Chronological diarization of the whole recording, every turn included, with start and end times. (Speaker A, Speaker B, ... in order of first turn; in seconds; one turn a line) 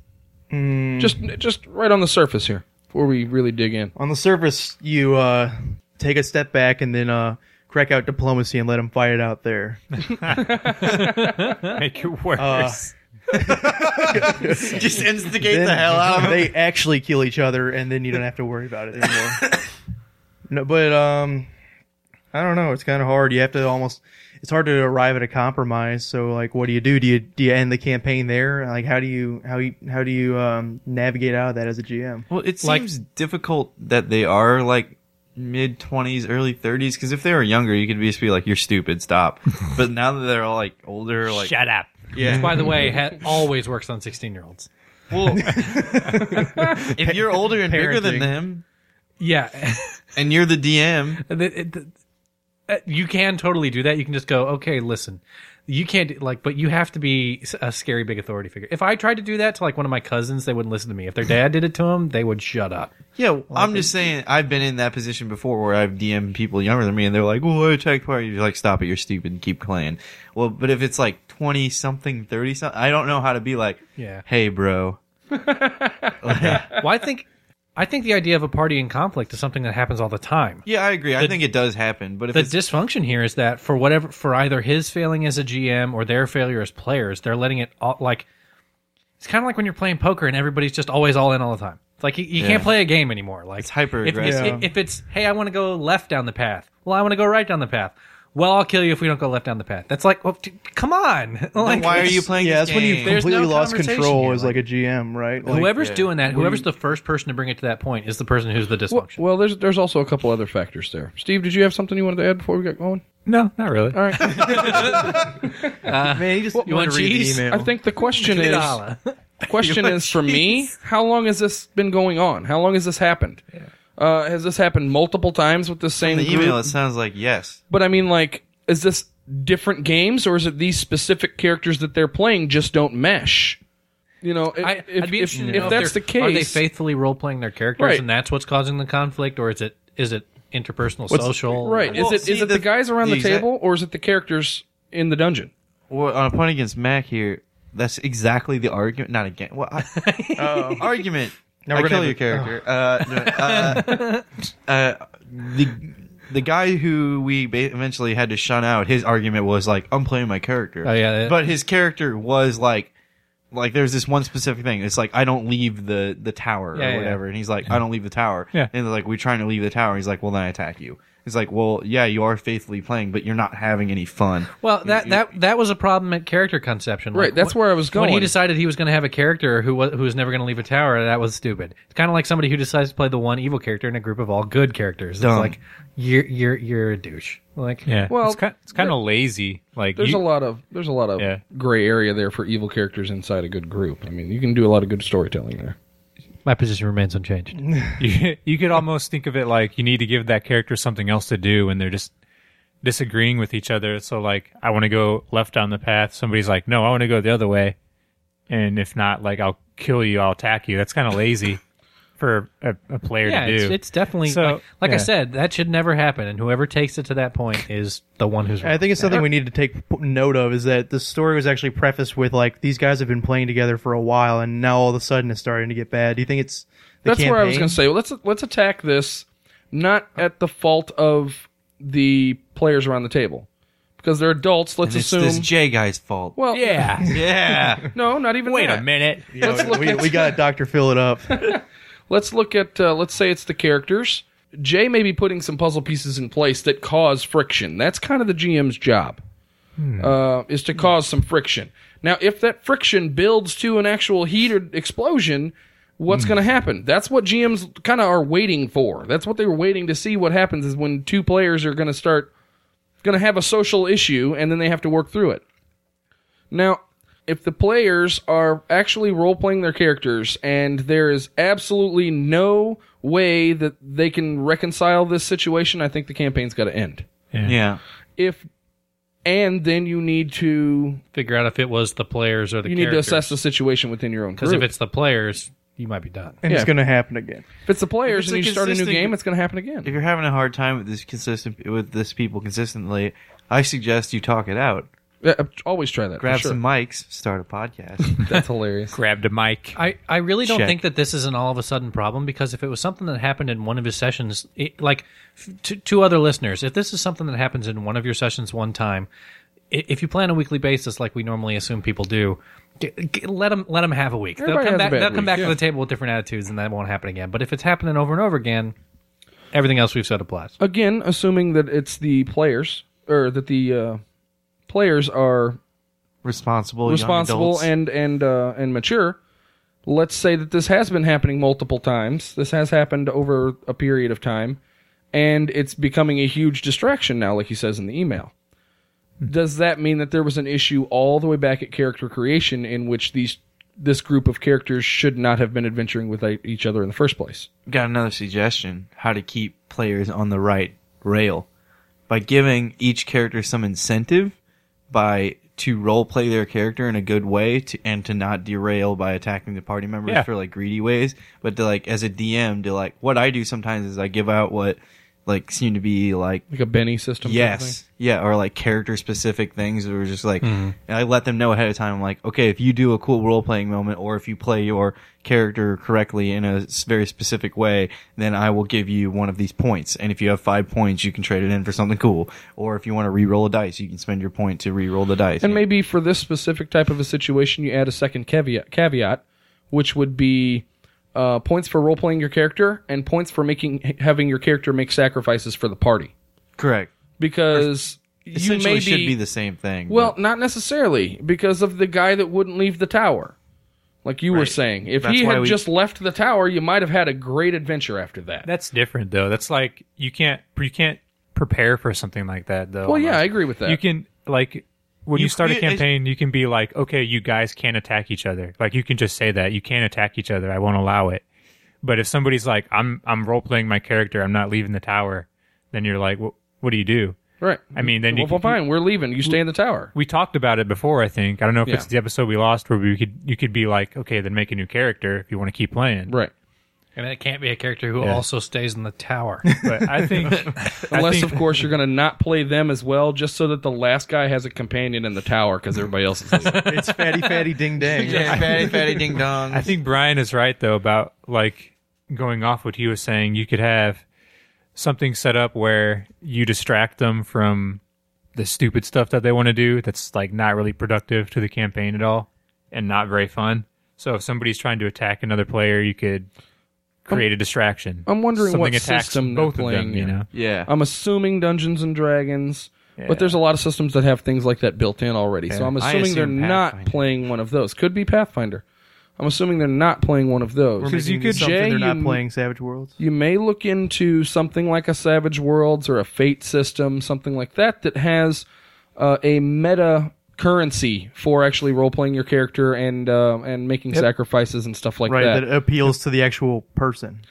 Speaker A: 0.5-1.2
Speaker B: 1.0-3.9
Speaker A: 4.0-10.2
Speaker C: 10.1-12.9
Speaker B: 10.5-11.0
Speaker A: 12.4-19.5
Speaker D: 13.5-16.5
Speaker A: 20.5-21.5
Speaker A: 22.3-32.3
Speaker D: 32.3-41.5
Speaker E: 32.6-32.9
Speaker C: 41.3-42.4
Speaker D: 42.1-42.9
Speaker E: 42.3-44.7
Speaker D: 45.1-45.7
Speaker A: 45.5-48.3
Speaker D: 46.9-48.6
Speaker E: 49.2-50.0
Speaker D: 50.2-51.2
Speaker E: 51.3-51.9
Speaker E: 52.7-62.9
Speaker D: 63.2-75.0
Speaker E: 63.5-63.9
Speaker E: 74.0-74.2
Speaker B: 75.3-76.6
Speaker D: 76.2-76.7
Speaker E: 76.8-80.7
Speaker D: 80.7-82.6
Speaker E: 82.3-88.3
Speaker E: 89.2-102.3
Speaker D: 92.4-92.7
Speaker D: 93.6-94.6
Speaker A: 94.2-94.7
Speaker D: 101.6-103.2
Speaker A: 102.3-105.7
Speaker E: 103.0-104.6
Speaker E: 105.4-109.2
Speaker D: 105.8-106.1
Speaker B: 108.9-113.0
Speaker C: 113.3-114.4
Speaker B: 113.9-115.5
Speaker E: 114.5-115.0
Speaker E: 115.8-119.1
Speaker A: 116.1-117.7
Speaker B: 117.5-118.8
Speaker B: 119.5-123.4
Speaker D: 119.6-120.4
Speaker B: 124.0-126.8
Speaker D: 126.0-127.6
Speaker B: 127.7-133.6
Speaker B: 134.2-136.6
Speaker E: 134.6-142.0
Speaker B: 137.8-138.0
Speaker B: 141.1-145.5
Speaker D: 141.9-143.5
Speaker D: 145.9-150.0
Speaker E: 149.9-150.9
Speaker A: 150.4-150.8
Speaker D: 150.8-154.0
Speaker A: 151.7-152.5
Speaker E: 153.2-154.2
Speaker D: 154.7-162.9
Speaker E: 160.8-161.4
Speaker D: 163.5-175.2
Speaker E: 166.8-167.2
Speaker E: 174.6-187.9
Speaker B: 177.1-178.3
Speaker D: 185.2-185.6
Speaker C: 187.9-190.2
Speaker B: 188.1-189.0
Speaker B: 190.0-195.8
Speaker E: 196.4-197.6
Speaker C: 198.0-202.1
Speaker C: 202.8-207.8
Speaker C: 208.5-211.6
Speaker C: 212.2-215.1
Speaker E: 213.2-219.2
Speaker A: 218.6-227.8
Speaker B: 227.1-233.5
Speaker B: 234.0-235.5
Speaker D: 234.8-236.4
Speaker B: 236.4-236.9
Speaker C: 236.5-237.1
Speaker D: 237.1-237.9
Speaker B: 237.9-240.4
Speaker C: 238.5-239.7
Speaker A: 239.3-241.6
Speaker B: 241.3-249.2
Speaker C: 249.8-250.1
Speaker B: 250.0-262.3
Speaker B: 263.0-265.4
Speaker B: 266.5-277.1
Speaker C: 277.3-277.6
Speaker D: 277.4-277.8
Speaker B: 278.2-278.5
Speaker B: 279.2-281.0
Speaker E: 281.1-283.4
Speaker B: 282.6-284.7
Speaker E: 284.4-286.4
Speaker A: 286.4-287.5
Speaker B: 286.5-286.7
Speaker B: 287.6-289.9
Speaker D: 288.1-289.1
Speaker D: 289.8-294.9
Speaker B: 295.2-296.6
Speaker D: 296.2-298.2
Speaker B: 298.2-299.0
Speaker C: 298.9-299.8
Speaker E: 299.8-309.1
Speaker D: 300.4-300.8
Speaker E: 309.7-318.8
Speaker B: 314.4-315.6
Speaker E: 319.5-320.6
Speaker B: 320.6-324.0
Speaker B: 324.7-325.6
Speaker D: 326.2-327.7
Speaker B: 326.9-329.2
Speaker B: 329.9-334.6
Speaker B: 335.1-338.3
Speaker B: 339.3-347.5
Speaker D: 347.7-351.5
Speaker D: 352.1-354.4
Speaker D: 354.9-366.4
Speaker B: 366.5-367.8
Speaker D: 367.2-385.6
Speaker E: 370.4-370.7
Speaker B: 385.4-396.1
Speaker D: 396.6-396.9
Speaker B: 397.2-399.2
Speaker D: 398.3-400.1
Speaker B: 399.9-403.4
Speaker B: 404.0-408.5
Speaker D: 404.3-405.6
Speaker C: 408.4-421.2
Speaker B: 412.9-413.8
Speaker D: 415.1-415.9
Speaker C: 421.8-427.2
Speaker B: 427.4-429.9
Speaker C: 427.8-428.6
Speaker C: 429.9-436.1
Speaker B: 436.1-436.3
Speaker E: 437.0-439.5
Speaker A: 439.5-440.5
Speaker C: 439.6-441.6
Speaker B: 440.9-446.6
Speaker E: 446.4-447.4
Speaker A: 446.5-448.8
Speaker E: 448.0-448.4
Speaker D: 448.0-449.7
Speaker C: 449.5-454.0
Speaker C: 454.8-457.8
Speaker C: 458.4-466.3
Speaker C: 467.1-470.3
Speaker B: 468.1-478.6
Speaker D: 470.3-470.7
Speaker C: 473.0-473.4
Speaker D: 475.8-477.0
Speaker B: 479.2-482.2
Speaker A: 480.8-482.9
Speaker C: 480.8-481.5
Speaker B: 483.0-495.5
Speaker A: 495.1-497.2